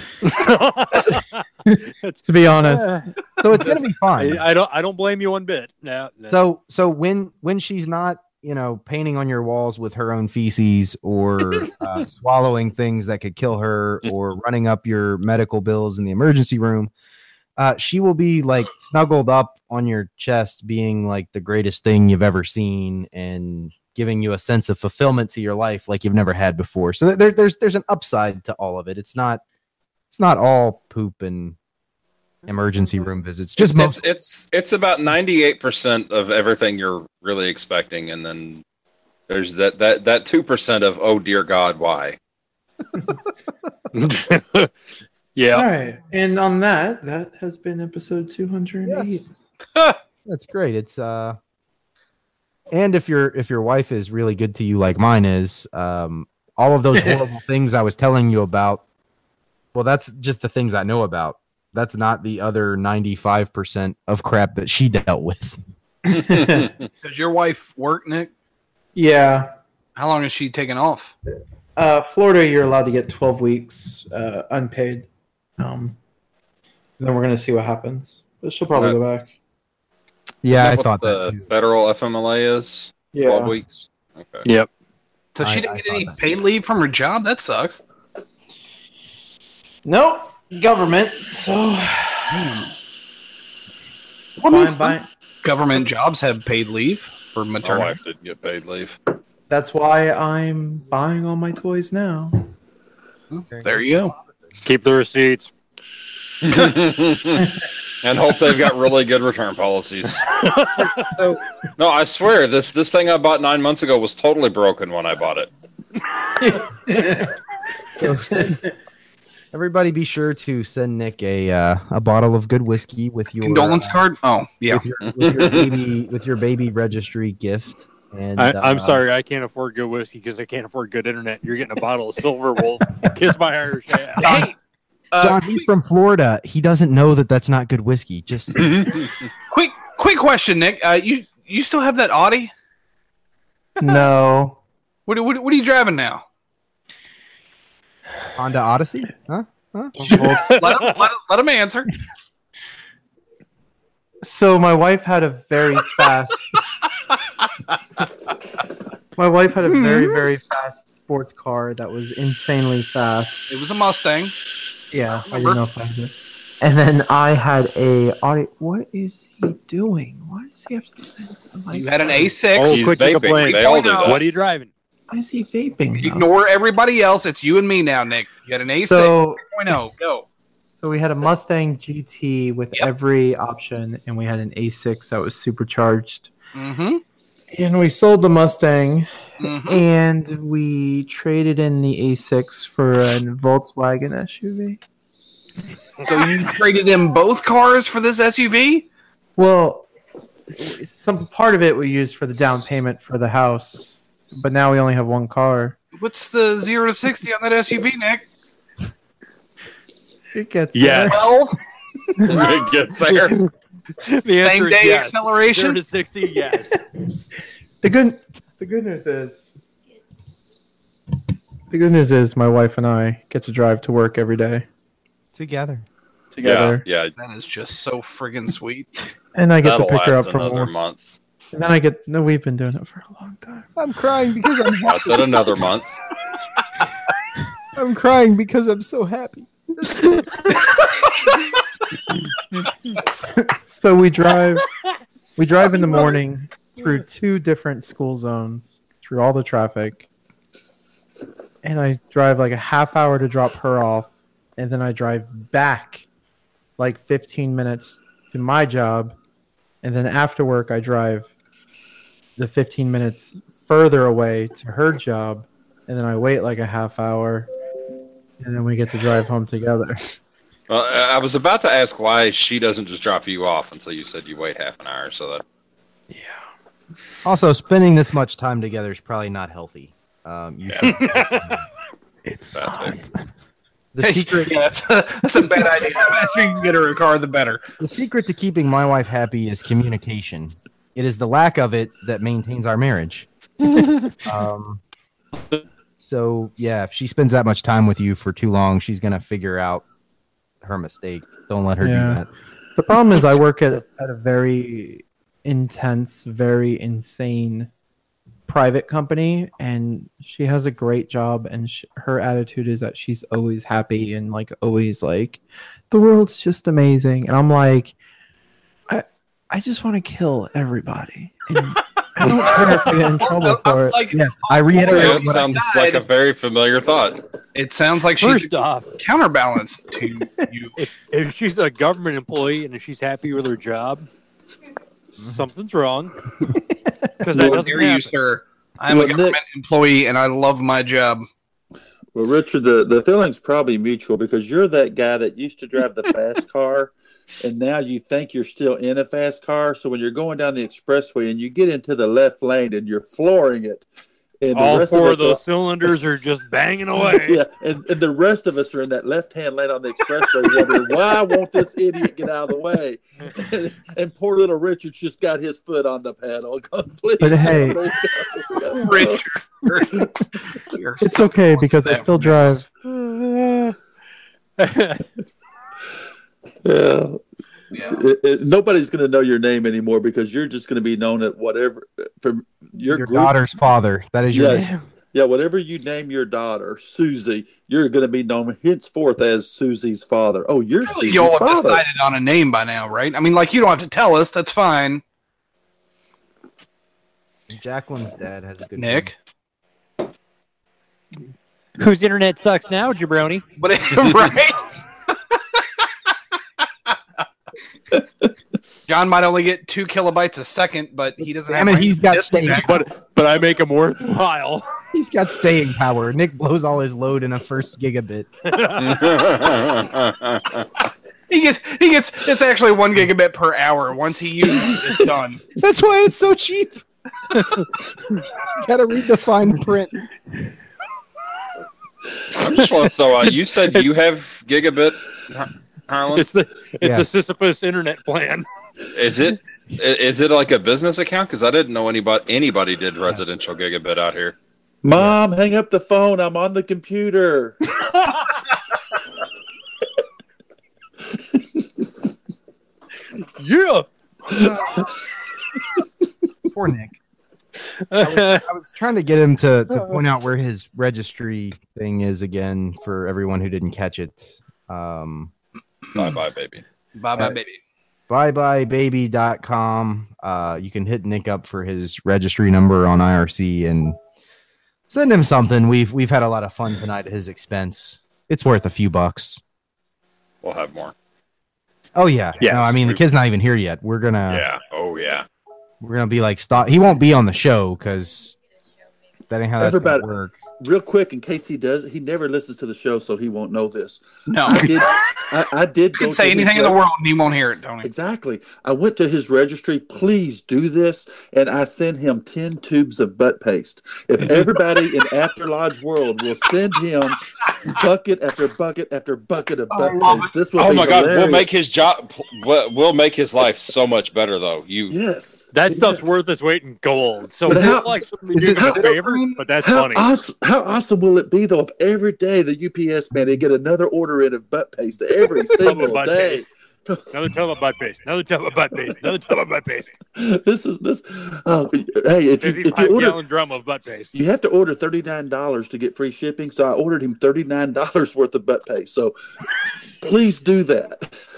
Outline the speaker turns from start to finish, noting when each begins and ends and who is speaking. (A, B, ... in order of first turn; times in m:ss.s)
0:00.2-0:01.4 A
0:01.7-0:03.0 B
0:02.0-0:06.4 A
0:03.4-0:04.4 C
0:06.3-0:16.9 C
0:17.6-0:29.4 C
0:30.1-0:31.6 C
0:32.5-0:34.0 C
0:33.6-0:38.6 D
0:39.3-0:42.2 D
0:43.9-0:44.7 A
0:45.4-0:45.7 A
0:45.5-0:49.3 B
0:48.8-0:49.3 C
0:50.2-0:51.4 C
0:52.7-0:58.8 C
0:59.7-1:05.6 C
1:06.1-1:06.7 B
1:06.3-1:06.7 D
1:07.0-1:08.3 E
1:09.0-1:09.5 B
1:10.0-1:11.1 E
1:11.8-1:15.1 B
1:15.6-1:16.0 B
1:17.0-1:19.3 B
1:18.7-1:19.0 D
1:20.4-1:21.5 C
1:20.5-1:24.5 D
1:23.1-1:23.6 B
1:24.4-1:24.7 A
1:25.4-1:27.8 E
1:25.4-1:26.3 C
1:29.8-1:32.6 B
1:32.3-1:32.6 E
1:34.4-1:38.0 E
1:34.4-1:35.1 B
1:37.6-1:39.0 D
1:39.5-1:42.5 B
1:43.3-1:44.1 E
1:43.5-1:44.6 C
1:44.6-1:45.5 A
1:46.4-1:50.4 D
1:50.8-1:51.4 C
1:51.8-1:55.5 D
1:56.4-1:57.3 B
1:58.0-1:58.6 C
1:59.5-2:04.1 C
2:03.4-2:04.9 E
2:04.7-2:09.0 C
2:05.1-2:05.7 D
2:08.4-2:14.4 A
2:14.2-2:14.6 E
2:15.1-2:15.7 E
2:15.2-2:18.9 C
2:18.6-2:19.1 D
2:19.5-2:22.5 E
2:23.8-2:24.6 B
2:25.1-2:26.2 E
2:28.4-2:30.2 C
2:30.0-2:30.6 B
2:30.1-2:31.9 E
2:30.3-2:31.0 A
2:34.2-2:36.6 B
2:39.2-2:43.5 B
2:39.6-2:40.3 E
2:43.5-2:44.4 E
2:44.9-2:52.3 B
2:45.3-2:45.6 E
2:51.7-2:54.2 E
2:52.6-2:54.7 A
2:52.6-2:54.2 D
2:55.1-2:56.3 B
2:56.0-3:00.3 E
2:58.8-2:59.4 B
3:00.8-3:06.3 B
3:06.5-3:07.0 E
3:07.5-3:09.1 B
3:09.4-3:09.8 E
3:09.7-3:14.8 B
3:16.0-3:18.9 E
3:19.4-3:19.9 B
3:20.5-3:25.8 B
3:26.0-3:28.3 E
3:30.3-3:31.4 B
3:30.7-3:31.4 A
3:31.1-3:31.5 E
3:32.2-3:32.5 B
3:32.3-3:33.4 D
3:33.2-3:33.5 A
3:34.0-3:36.8 A
3:34.4-3:35.8 E
3:37.8-3:39.5 B
3:41.7-3:44.7 B
3:45.3-3:45.9 C
3:46.3-3:46.8 B
3:46.4-3:47.1 D
3:47.2-3:48.9 E
3:49.4-3:50.7 B
3:49.6-3:51.2 D
3:51.5-3:53.7 B
3:53.8-3:55.5 C
3:54.8-3:56.0 D
3:57.8-4:00.6 C
4:03.1-4:04.7 B
4:05.4-4:10.1 B
4:11.6-4:16.0 B
4:16.8-4:19.2 B
4:19.8-4:21.3 B
4:22.4-4:27.5 B
4:28.4-4:30.1 B
4:30.7-4:35.4 D
4:36.1-4:36.4 B
4:37.2-4:41.6 C
4:40.7-4:41.0 D
4:40.9-4:41.6 A
4:42.3-4:43.1 B
4:42.5-4:43.0 D
4:43.9-4:44.6 C
4:44.0-4:47.6 E
4:47.8-4:53.3 C
4:54.2-4:54.8 C
4:56.0-4:59.8 C
5:00.6-5:02.3 C
5:01.8-5:02.2 B
5:02.8-5:07.7 B
5:08.5-5:18.0 B
5:18.9-5:24.0 B
5:22.2-5:26.1 E
5:24.1-5:25.7 C
5:24.9-5:27.2 D
5:27.5-5:30.8 E
5:28.2-5:28.9 A
5:30.8-5:34.1 A
5:35.2-5:36.1 A
5:37.2-5:38.1 A
5:37.3-5:37.7 F
5:37.3-5:41.3 E
5:38.9-5:39.4 F
5:42.2-5:53.9 F
5:54.4-5:55.4 F
5:54.5-5:57.4 A
5:57.1-6:09.2 F
6:07.2-6:07.8 B
6:08.5-6:12.6 E
6:11.0-6:12.7 B
6:12.8-6:13.8 A
6:14.6-6:15.1 A
6:16.6-6:17.2 F
6:17.7-6:18.0 E
6:17.8-6:23.3 F
6:22.9-6:24.7 C
6:24.3-6:31.8 F
6:30.8-6:35.0 E
6:37.5-6:39.1 C
6:38.8-6:39.2 E
6:41.8-6:43.4 A
6:43.6-6:44.7 E
6:48.9-6:52.8 E
6:51.5-6:52.8 C
6:52.5-6:54.7 A
6:54.9-6:58.3 C
6:58.4-6:59.5 A
6:58.8-7:00.7 D
7:01.3-7:05.4 E
7:05.6-7:06.8 C
7:08.5-7:10.1 C
7:12.3-7:16.3 D
7:16.1-7:18.5 A
7:16.8-7:17.1 C
7:18.9-7:24.4 D
7:24.8-7:27.6 F
7:28.0-7:28.2 A
7:33.4-7:34.9 A
7:34.4-7:34.8 C
7:36.5-7:37.0 C
7:37.8-7:38.4 A
7:38.0-7:45.3 C
7:46.0-7:46.6 D
7:47.0-7:47.6 E
7:48.1-7:54.0 C
7:54.9-7:59.4 C
8:00.4-8:00.9 D
8:02.0-8:04.4 C
8:02.4-8:02.8 A
8:04.3-8:05.3 D
8:05.8-8:08.4 C
8:09.3-8:10.4 C
8:09.6-8:10.1 F
8:10.6-8:16.8 F
8:14.3-8:15.4 E
8:15.9-8:17.9 E
8:17.8-8:31.6 F
8:29.7-8:30.4 E
8:30.6-8:35.0 D
8:34.9-8:36.2 F
8:35.5-8:40.1 A
8:37.5-8:38.9 F
8:37.5-8:39.4 C
8:39.6-8:47.3 F
8:45.4-8:46.5 A
8:47.1-8:50.0 A
8:50.2-8:53.2 F
8:52.4-8:54.1 A
8:54.1-8:59.2 F
8:59.9-9:01.1 F